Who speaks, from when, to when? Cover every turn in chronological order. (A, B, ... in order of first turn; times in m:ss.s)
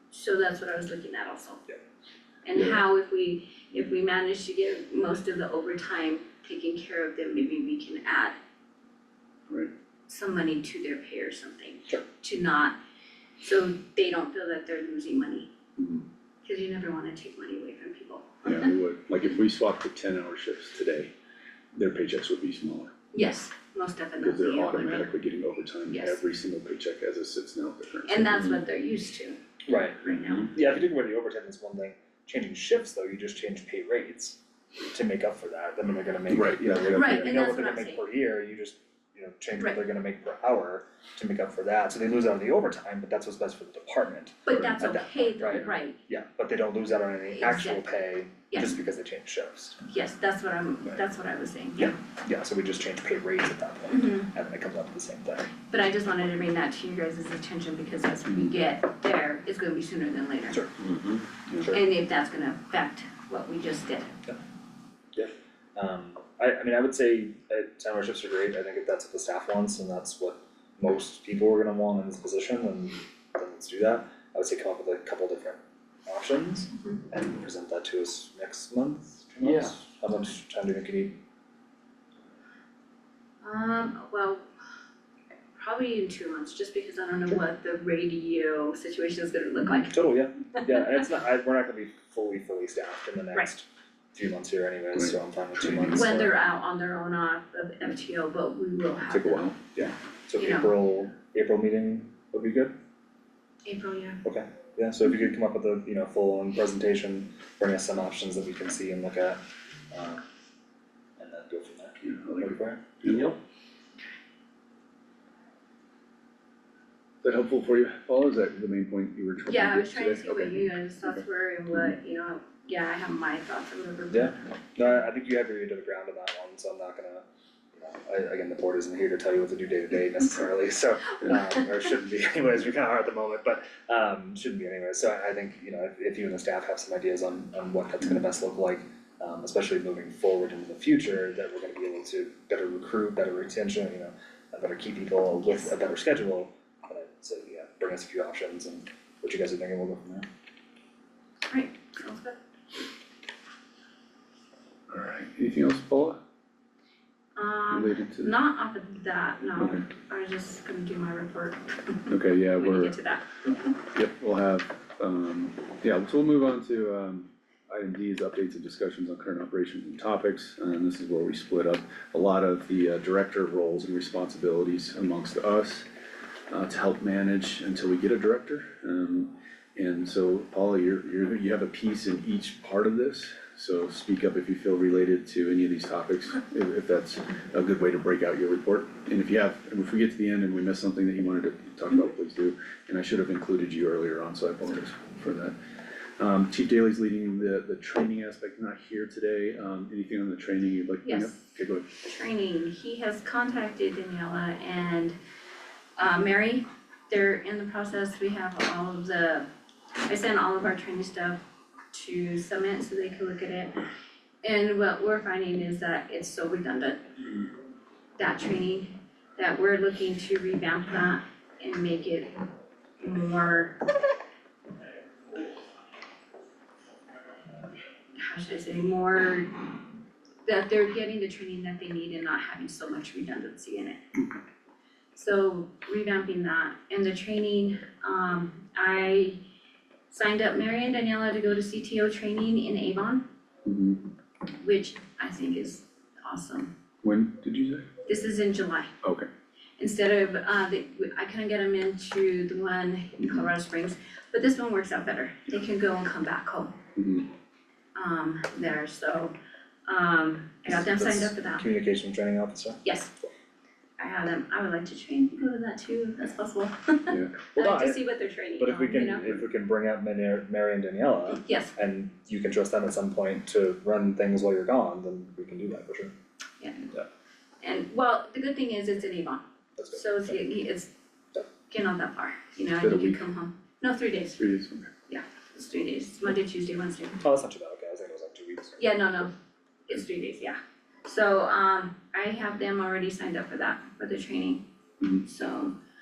0:00.1-0:01.6 A
0:02.4-0:08.4 A
0:10.1-0:12.7 A
0:13.4-0:15.5 A
0:15.8-0:16.0 B
0:16.4-0:18.6 A
0:18.4-0:21.1 B
0:21.7-0:22.9 B
0:23.1-0:25.1 A
0:24.2-0:28.6 B
0:25.9-0:26.2 A
0:28.0-0:29.4 A
0:29.7-0:49.8 C
0:30.0-0:30.5 A
0:30.1-0:30.5 B
0:36.3-0:37.2 B
0:36.9-0:38.0 A
0:44.5-0:46.0 A
0:47.3-0:48.0 A
0:48.5-0:48.8 A
0:49.9-0:52.0 A
0:51.8-0:55.5 C
0:53.9-0:54.3 A
0:55.7-1:00.6 A
1:00.8-1:01.7 B
1:01.7-1:04.2 A
1:05.1-1:21.2 C
1:19.4-1:19.7 B
1:23.4-1:24.4 A
1:25.5-1:29.9 A
1:29.9-1:36.3 C
1:34.9-1:36.1 B
1:35.9-1:39.5 A
1:39.1-1:39.6 B
1:39.7-1:42.7 C
1:40.4-1:40.8 A
1:43.6-1:44.2 A
1:44.2-1:50.2 C
1:51.2-1:53.4 C
1:52.0-1:53.3 B
1:57.2-2:01.2 B
1:59.5-2:04.5 A
2:04.1-2:30.2 C
2:31.5-2:32.4 A
2:34.9-2:36.2 B
2:37.4-2:43.7 A
2:37.7-2:38.3 B
2:39.6-2:39.8 B
2:42.1-2:43.0 B
2:43.9-2:55.9 B
2:56.5-3:15.6 B
3:16.2-3:21.9 B
3:21.0-3:25.2 A
3:26.0-3:29.4 A
3:30.0-3:33.8 A
3:34.4-3:37.0 A
3:38.2-3:42.4 A
3:43.0-3:43.8 A
3:48.1-3:49.7 A
3:50.4-3:54.0 A
3:55.1-3:59.4 A
4:00.1-4:03.2 A
4:03.6-4:04.0 B
4:04.6-4:06.7 A
4:07.0-4:07.9 B
4:08.0-4:08.9 A
4:09.0-4:09.3 B
4:09.8-4:16.8 A
4:13.2-4:13.4 B
4:17.0-4:17.3 B
4:17.9-4:19.3 A
4:19.9-4:21.6 A
4:20.7-4:22.8 C
4:22.8-4:23.1 A
4:24.0-4:29.4 A
4:27.1-4:27.4 B
4:27.5-4:28.0 C
4:28.6-4:36.1 C
4:31.3-4:31.7 A
4:36.6-4:36.9 A
4:37.6-4:40.9 A
4:39.8-4:40.4 C
4:41.7-4:44.4 A
4:42.8-4:43.2 B
4:44.4-4:44.9 B
4:45.1-4:47.2 A
4:47.2-4:48.8 C
4:48.8-4:49.3 A
4:49.9-4:55.7 A